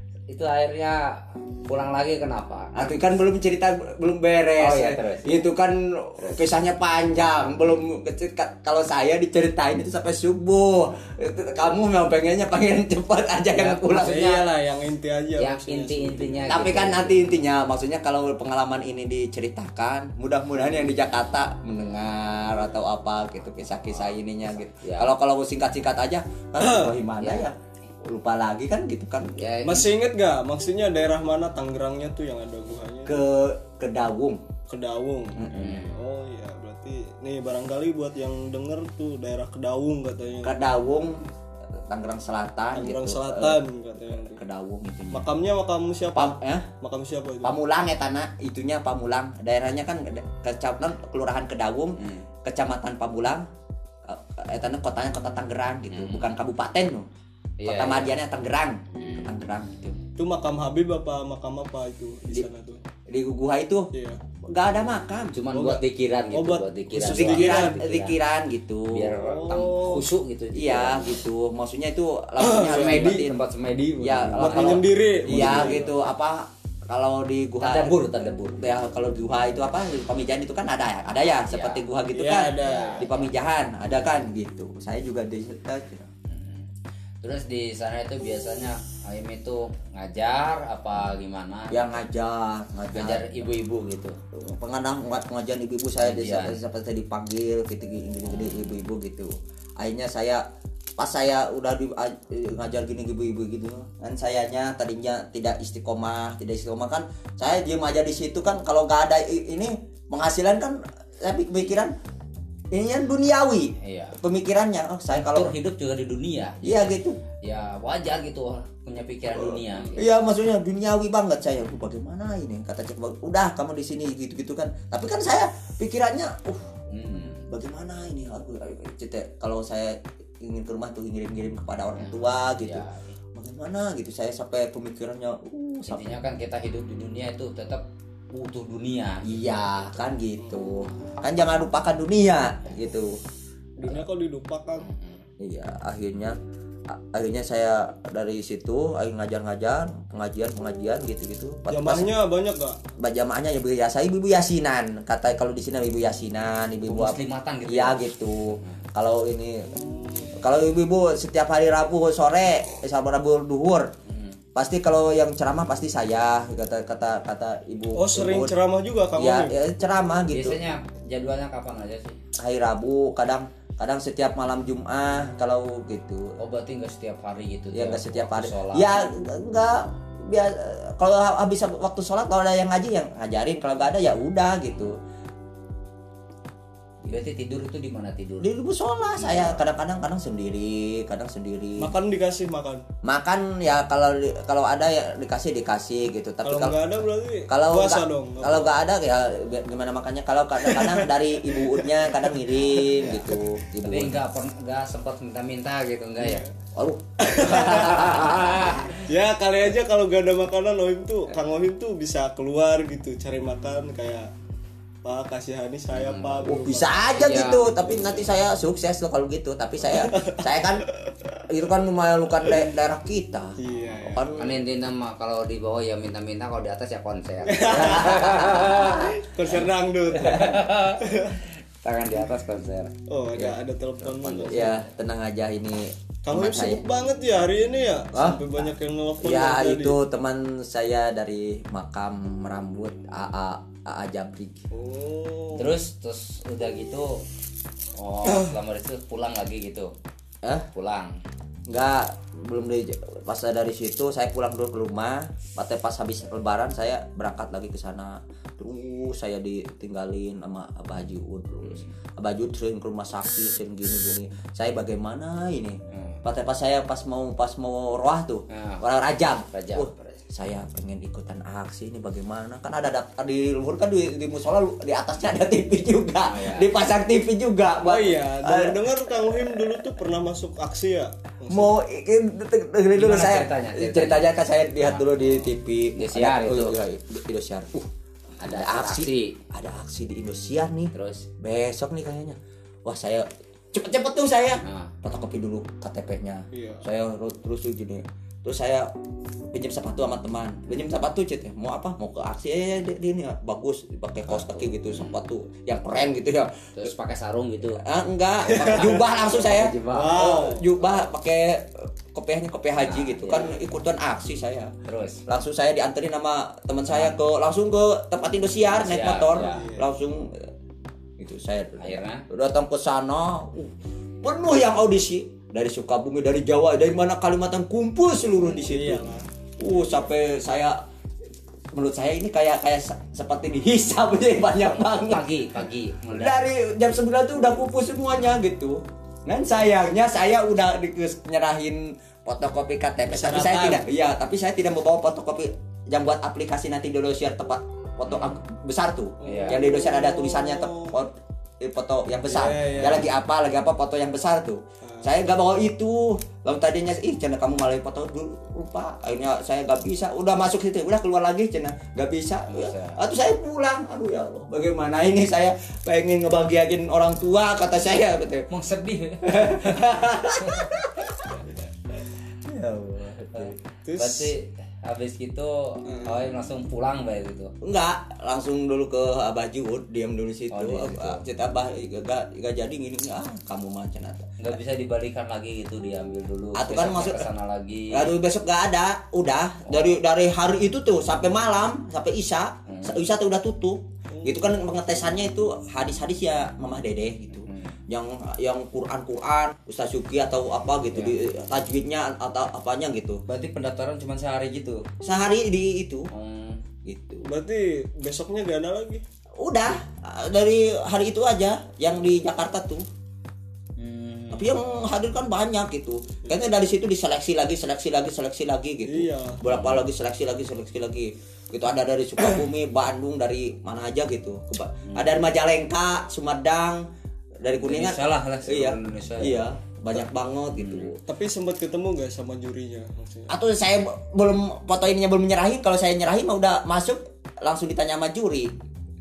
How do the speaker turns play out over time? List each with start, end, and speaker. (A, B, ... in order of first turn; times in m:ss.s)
0:00.3-0:02.9 A
0:02.7-0:14.2 B
0:04.6-0:05.3 A
0:13.6-0:14.5 A
0:13.9-0:16.9 C
0:15.4-0:17.2 A
0:16.5-0:29.5 B
0:24.8-0:25.1 A
0:26.6-0:27.0 C
0:27.2-0:27.5 A
0:29.4-0:29.9 A
0:29.6-0:33.2 C
0:33.0-0:34.4 B
0:34.7-0:40.6 C
0:35.4-0:35.8 B
0:35.5-0:36.0 A
0:40.4-0:41.3 B
0:41.9-0:45.3 B
0:42.7-0:44.4 C
0:45.1-0:47.5 C
0:46.1-0:46.7 B
0:47.4-0:53.4 B
0:52.0-0:52.2 A
0:54.1-0:57.0 B
0:55.9-0:56.3 A
0:57.6-0:58.1 A
0:57.6-1:00.0 B
0:58.9-0:59.3 A
1:00.2-1:02.8 C
1:03.0-1:03.9 B
1:03.9-1:04.2 C
1:04.4-1:05.4 B
1:05.3-1:08.2 A
1:05.5-1:07.8 C
1:07.0-1:09.2 B
1:08.9-1:11.2 A
1:09.2-1:10.1 C
1:10.5-1:13.4 B
1:12.4-1:13.3 C
1:12.4-1:15.8 A
1:14.0-1:26.1 B
1:14.4-1:15.9 C
1:17.6-1:18.7 A
1:21.5-1:21.8 A
1:22.1-1:23.0 C
1:22.6-1:23.3 A
1:26.3-1:26.6 A
1:27.2-1:32.0 A
1:31.7-1:33.4 B
1:32.9-1:34.2 A
1:34.3-1:40.4 B
1:36.0-1:36.6 A
1:41.0-1:51.9 B
1:52.7-1:55.5 B
1:53.8-1:54.2 A
1:55.1-2:00.0 A
1:56.6-1:57.2 B
1:59.3-2:06.7 B
2:06.9-2:07.5 A
2:07.5-2:16.2 B
2:12.0-2:13.1 A
2:15.8-2:19.4 A
2:19.2-2:23.2 B
2:23.8-2:24.9 C
2:24.9-2:25.2 A
2:25.4-2:26.4 B
2:26.9-2:32.1 B
2:31.7-2:32.8 C
2:33.0-2:39.7 B
2:36.8-2:38.8 A
2:39.7-2:40.3 C
2:40.3-2:43.9 B
2:44.1-2:44.4 A
2:44.5-2:48.6 B
2:47.9-2:49.6 C
2:49.1-2:50.6 B
2:50.3-2:52.2 A
2:52.4-2:56.3 B
2:56.4-2:59.1 A
2:57.7-3:05.0 B
3:07.0-3:08.5 A
3:08.4-3:11.9 B
3:09.2-3:09.5 A
3:11.8-3:12.8 C
3:13.0-3:24.2 B
3:16.4-3:18.7 C
3:20.7-3:23.3 C
3:23.8-3:26.5 A
3:26.7-3:29.0 B
3:27.2-3:28.1 C
3:27.6-3:28.9 A
3:29.0-3:34.3 C
3:35.0-3:38.0 C
3:35.9-3:36.5 A
3:36.4-3:40.8 B
3:37.2-3:37.9 A
3:39.9-3:40.4 C
3:41.5-3:43.6 B
3:43.6-3:44.4 C
3:44.1-3:44.6 B
3:44.4-3:49.1 A
3:47.4-3:51.4 C
3:47.7-3:49.2 B
3:50.1-3:53.4 A
3:53.1-3:54.7 C
3:54.0-3:54.8 A
3:54.5-3:56.8 B
3:56.2-4:00.0 C
3:58.1-3:58.4 B
3:59.2-4:04.6 B
4:04.7-4:05.7 C
4:05.5-4:07.2 A
4:07.9-4:09.9 A
4:10.4-4:10.7 B
4:10.7-4:11.2 A
4:11.7-4:39.8 B
4:21.6-4:21.9 A
4:25.9-4:26.2 A
4:28.5-4:28.9 A
4:29.5-4:30.2 A
4:36.2-4:36.7 A
4:37.8-4:41.7 C
4:41.5-4:47.9 B
4:42.9-4:46.8 A
4:48.4-4:49.4 A
4:48.4-4:58.9 B
4:50.9-4:51.3 A
4:54.6-4:54.9 A
4:56.5-4:56.8 C
4:59.5-5:06.9 B
5:04.3-5:05.2 A
5:06.8-5:07.8 A
5:07.8-5:14.7 B
5:08.6-5:10.4 A
5:09.9-5:10.6 C
5:12.8-5:13.5 A
5:14.8-5:15.2 A
5:15.2-5:20.5 B
5:16.9-5:17.2 A
5:18.7-5:19.6 A
5:19.5-5:19.9 C
5:21.2-5:30.8 B
5:21.8-5:22.2 A
5:28.6-5:29.2 C
5:31.7-5:35.2 B
5:35.0-5:36.4 A
5:36.1-6:08.5 B
5:43.1-5:43.8 C
5:49.2-5:51.0 C
5:49.2-5:49.6 A
5:52.3-5:53.0 C
5:54.8-5:55.1 C
6:02.5-6:03.0 A
6:08.5-6:09.8 A
6:09.2-6:11.4 B
6:10.4-6:10.7 A
6:12.4-6:13.5 B
6:13.3-6:17.5 A
6:13.8-6:14.3 C
6:17.6-6:24.4 B
6:20.5-6:21.2 A
6:24.4-6:28.1 A
6:26.5-6:27.3 B
6:27.9-6:43.2 B
6:29.6-6:29.9 A
6:32.6-6:33.0 A
6:37.3-6:37.8 A
6:43.3-6:44.9 A
6:45.0-6:46.1 B
6:46.1-6:46.6 A
6:46.8-6:47.2 B
6:47.2-6:49.0 C
6:49.4-6:52.8 B
6:53.8-6:54.5 A
6:54.3-7:06.8 B
6:58.8-6:59.4 C
6:59.5-6:59.8 A
7:04.9-7:05.1 A
7:07.4-7:11.0 B
7:07.6-7:09.4 A
7:10.5-7:10.9 A
7:11.1-7:13.3 C
7:13.3-7:18.5 B